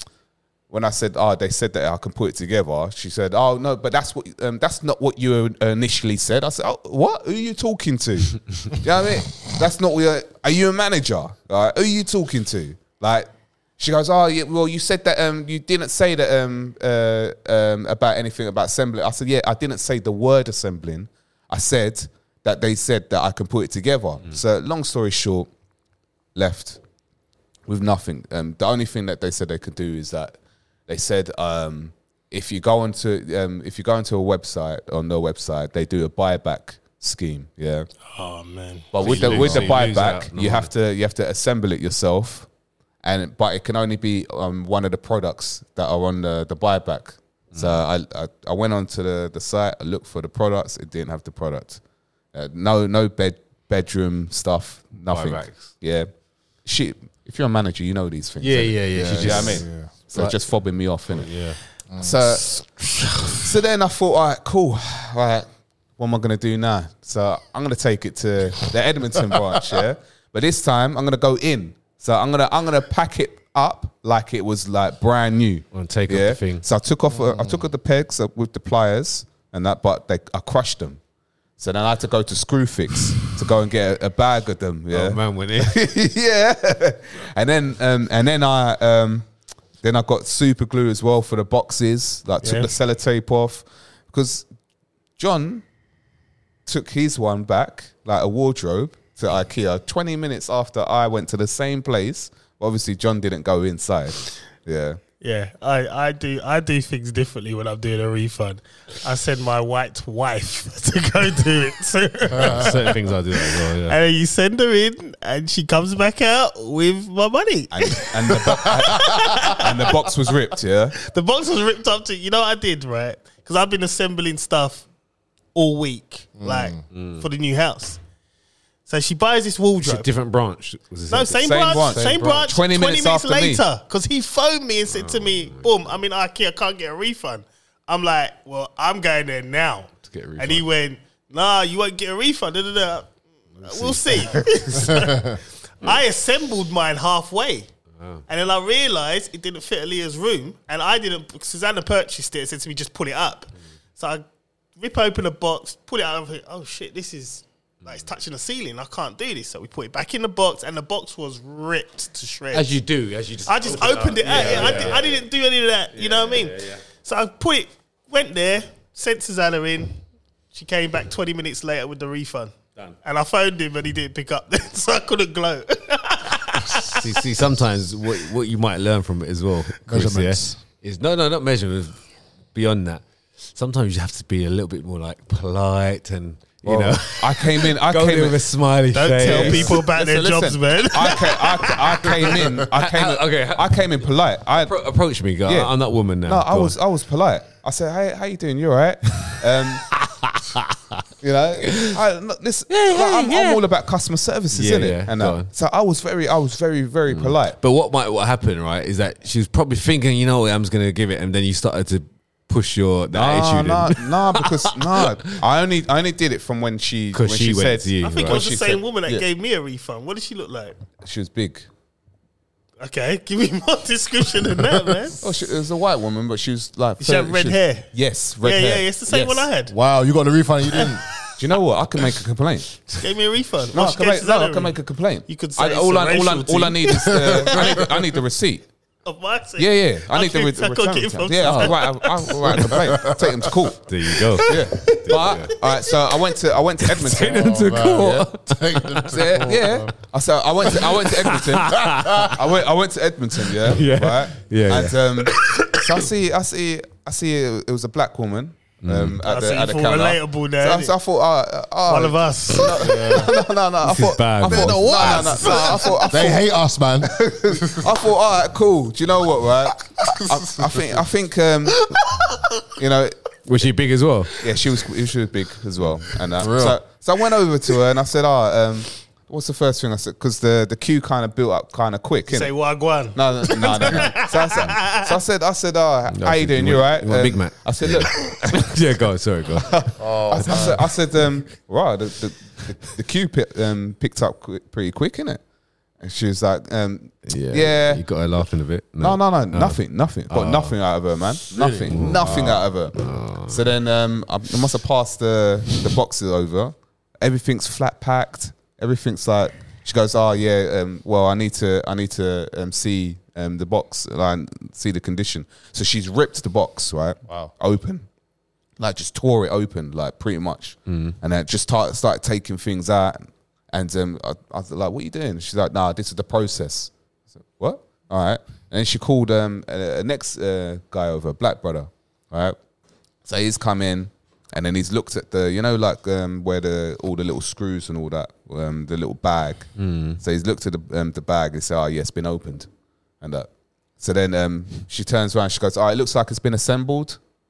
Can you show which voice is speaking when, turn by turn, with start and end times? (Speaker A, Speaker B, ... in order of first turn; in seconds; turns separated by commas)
Speaker A: 0.7-13.3, Speaker A: 13.8-25.5, Speaker A: 26.3-26.8, Speaker A: 27.7-30.4, Speaker A: 30.9-37.9, Speaker B: 38.1-39.2, Speaker A: 38.9-42.5, Speaker C: 39.0-40.7, Speaker D: 39.4-39.7, Speaker A: 43.0-51.8, Speaker C: 47.5-47.8, Speaker A: 52.3-56.1, Speaker C: 55.1-55.7, Speaker A: 56.6-61.4, Speaker C: 58.4-59.6, Speaker D: 58.9-60.3, Speaker C: 61.1-61.6, Speaker D: 61.9-62.5, Speaker A: 62.0-62.6, Speaker A: 63.3-65.5, Speaker A: 66.0-81.0, Speaker C: 75.7-76.6, Speaker D: 77.1-77.6, Speaker A: 81.6-89.2, Speaker C: 84.9-85.8, Speaker A: 89.8-94.5, Speaker B: 92.4-92.7, Speaker A: 95.2-95.6, Speaker A: 96.7-105.0, Speaker B: 105.2-120.2, Speaker C: 112.4-114.0, Speaker A: 117.7-121.0, Speaker D: 118.7-119.0, Speaker B: 121.0-124.8, Speaker B: 125.5-128.0, Speaker D: 126.4-126.8, Speaker C: 126.9-127.2, Speaker B: 128.9-130.1, Speaker C: 129.8-132.5, Speaker B: 131.1-147.7, Speaker A: 131.4-133.6, Speaker C: 134.9-135.7, Speaker C: 140.0-140.7, Speaker C: 143.6-144.4, Speaker C: 148.0-148.2, Speaker B: 148.3-154.2, Speaker B: 154.8-162.8, Speaker C: 162.5-165.2, Speaker B: 163.5-169.9, Speaker C: 165.9-166.8, Speaker B: 170.5-177.1, Speaker C: 176.8-182.0, Speaker D: 179.8-180.6, Speaker C: 182.5-189.7, Speaker A: 186.6-188.4, Speaker B: 188.9-192.4, Speaker A: 189.2-194.8, Speaker C: 192.7-194.0, Speaker C: 194.6-196.8, Speaker A: 195.4-195.7, Speaker A: 196.2-199.9, Speaker C: 200.0-201.0, Speaker A: 201.2-207.6, Speaker C: 201.7-202.0, Speaker C: 202.7-203.6, Speaker C: 204.5-205.5, Speaker C: 207.1-215.4, Speaker A: 213.1-219.2, Speaker C: 217.1-218.4, Speaker B: 218.0-220.8, Speaker A: 221.0-221.7, Speaker B: 222.8-225.3, Speaker D: 224.6-225.0, Speaker A: 225.2-229.5, Speaker B: 227.0-227.9, Speaker B: 228.4-229.7, Speaker D: 229.7-231.0, Speaker A: 231.4-232.8, Speaker B: 232.9-234.8, Speaker A: 233.7-238.6, Speaker B: 235.3-237.9, Speaker D: 237.1-237.9, Speaker B: 239.0-242.8, Speaker A: 239.6-247.5, Speaker C: 241.4-241.8, Speaker D: 242.5-243.5, Speaker C: 243.8-245.6, Speaker C: 246.8-249.2, Speaker D: 247.2-249.9, Speaker A: 249.1-266.5, Speaker C: 250.7-252.4, Speaker D: 252.0-252.3, Speaker C: 253.6-255.5, Speaker C: 258.8-259.2, Speaker B: 259.3-260.9, Speaker B: 261.9-263.2, Speaker D: 262.7-263.3, Speaker C: 263.8-265.6, Speaker D: 264.5-268.0, Speaker B: 264.8-265.9, Speaker A: 267.0-271.9, Speaker D: 270.0-271.0, Speaker A: 272.8-273.1, Speaker C: 273.4-274.3, Speaker A: 274.4-282.5, Speaker D: 276.4-276.8, Speaker B: 282.3-285.1, Speaker A: 283.1-288.8, Speaker C: 286.1-290.7, Speaker A: 289.6-295.4, Speaker D: 290.0-290.9, Speaker A: 296.0-298.0, Speaker C: 297.2-300.7, Speaker A: 299.0-302.9, Speaker D: 301.5-302.3, Speaker C: 301.9-303.7, Speaker A: 303.5-318.0, Speaker D: 317.3-317.5, Speaker A: 318.8-326.9, Speaker C: 320.9-321.2, Speaker A: 327.6-332.6, Speaker A: 333.2-342.7, Speaker C: 339.8-340.2, Speaker A: 343.2-343.5, Speaker A: 344.0-347.2